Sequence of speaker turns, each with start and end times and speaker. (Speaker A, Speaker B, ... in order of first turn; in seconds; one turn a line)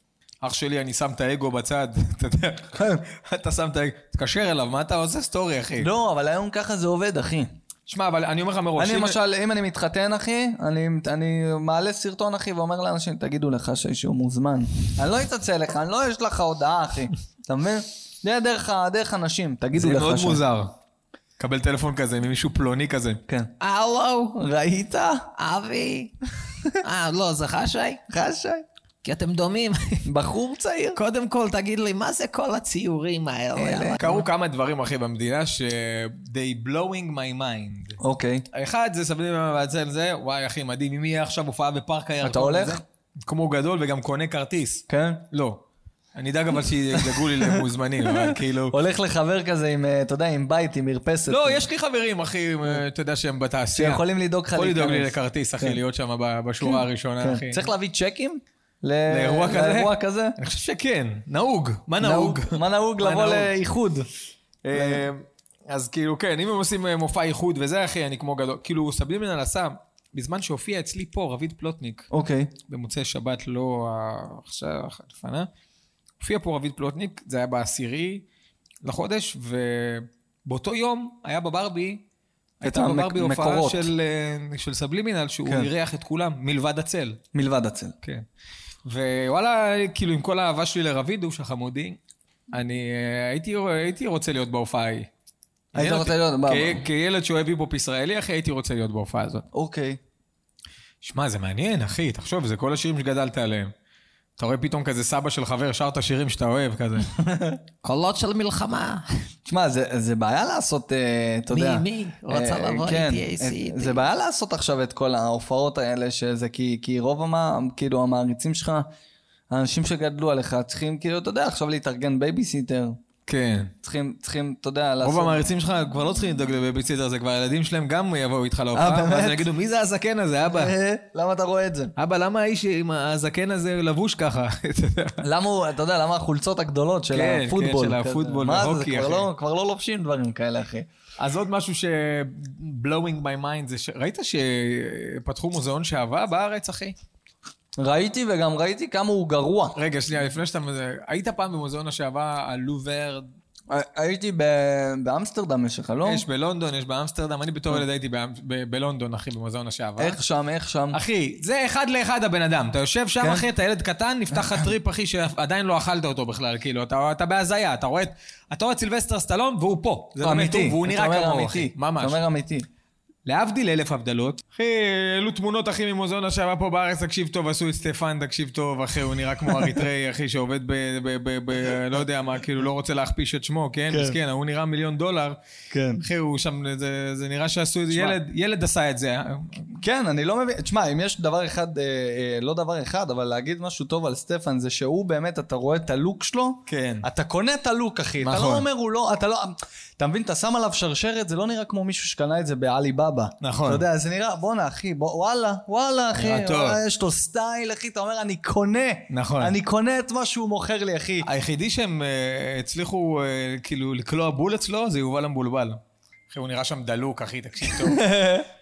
Speaker A: 0.4-5.9
Speaker B: 2.8-3.0
Speaker B: 5.8-7.5
Speaker A: 7.9-9.2
Speaker B: 8.8-20.4
Speaker A: 19.7-20.7
Speaker A: 21.4-23.2
Speaker B: 23.3-23.5
Speaker C: 23.6-24.3
Speaker B: 24.3-25.3
Speaker C: 25.4-26.1
Speaker C: 26.8-28.0
Speaker B: 28.1-28.6
Speaker C: 29.0-30.0
Speaker B: 30.0-31.0
Speaker C: 31.0-33.9
Speaker A: 31.4-32.3
Speaker A: 33.1-38.0
Speaker B: 33.5-34.2
Speaker B: 38.0-38.4
Speaker A: 38.5-45.6
Speaker B: 42.2-42.8
Speaker B: 44.9-45.2
Speaker A: 46.1-48.8
Speaker B: 47.0-51.6
Speaker A: 51.3-57.7
Speaker B: 53.7-55.8
Speaker B: 56.6-60.4
Speaker A: 59.1-63.5
Speaker B: 62.0-64.1
Speaker A: 64.6-72.1
Speaker B: 64.7-65.1
Speaker B: 72.1-72.5
Speaker A: 72.7-75.5
Speaker A: 76.2-78.2
Speaker A: 78.8-82.0
Speaker A: 82.6-87.2
Speaker B: 82.6-83.9
Speaker B: 87.3-88.0
Speaker A: 88.8-92.0
Speaker A: 92.5-95.1
Speaker A: 95.7-99.5
Speaker B: 95.8-96.8
Speaker B: 99.5-100.0
Speaker A: 101.0-103.7
Speaker A: 104.4-107.1
Speaker B: 107.2-107.6
Speaker A: 107.8-109.0
Speaker C: 108.2-108.9
Speaker B: 109.5-118.8
Speaker A: 111.5-113.9
Speaker C: 111.8-113.1
Speaker B: 119.5-123.0
Speaker A: 123.2-123.7
Speaker B: 123.8-125.4
Speaker A: 125.0-130.7
Speaker B: 128.7-129.4
Speaker B: 130.5-131.9
Speaker A: 131.9-135.2
Speaker B: 135.2-140.9
Speaker A: 137.1-139.3
Speaker A: 141.2-146.9
Speaker B: 147.8-149.8
Speaker A: 149.7-153.3
Speaker B: 153.7-156.2
Speaker A: 156.0-160.2
Speaker B: 160.0-161.0
Speaker A: 160.9-172.2
Speaker B: 163.2-163.4
Speaker B: 164.4-164.7
Speaker B: 170.2-172.7
Speaker A: 173.2-185.4
Speaker B: 183.9-184.2
Speaker B: 185.7-186.0
Speaker A: 186.0-189.8
Speaker B: 187.9-188.2
Speaker B: 189.8-211.3
Speaker A: 196.7-197.1
Speaker A: 198.2-198.7
Speaker A: 203.4-203.8
Speaker A: 206.1-206.8
Speaker A: 209.1-209.5
Speaker A: 211.2-218.1
Speaker B: 217.7-218.5